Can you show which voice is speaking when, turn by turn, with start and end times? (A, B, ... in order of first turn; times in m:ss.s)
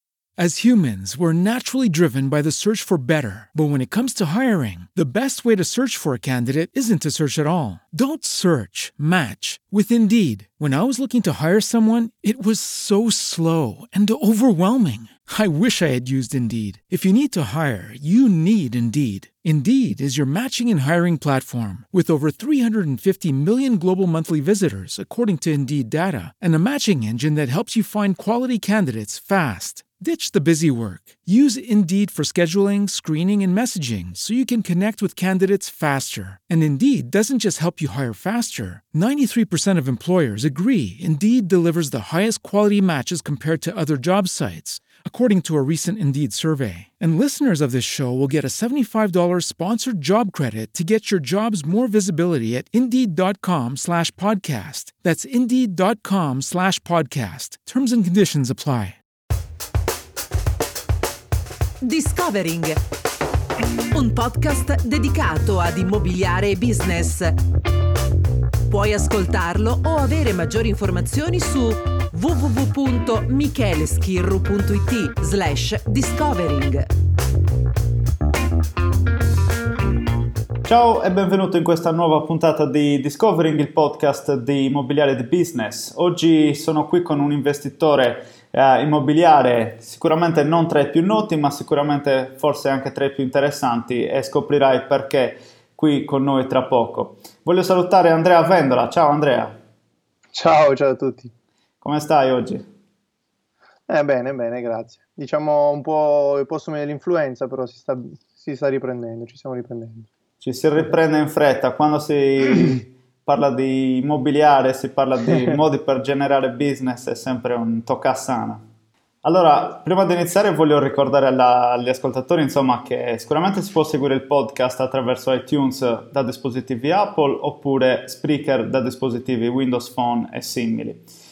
0:00.4-0:59.0 A
1:01.8-1:02.8 B
1:03.9-1:07.4 B
1:08.7-1:16.9 B
1:20.6-1:39.6 C
1:40.3-1:41.3 D
1:41.8-1:42.6 C
1:43.9-1:50.1 D
1:50.4-1:58.6 C
1:59.2-2:11.0 C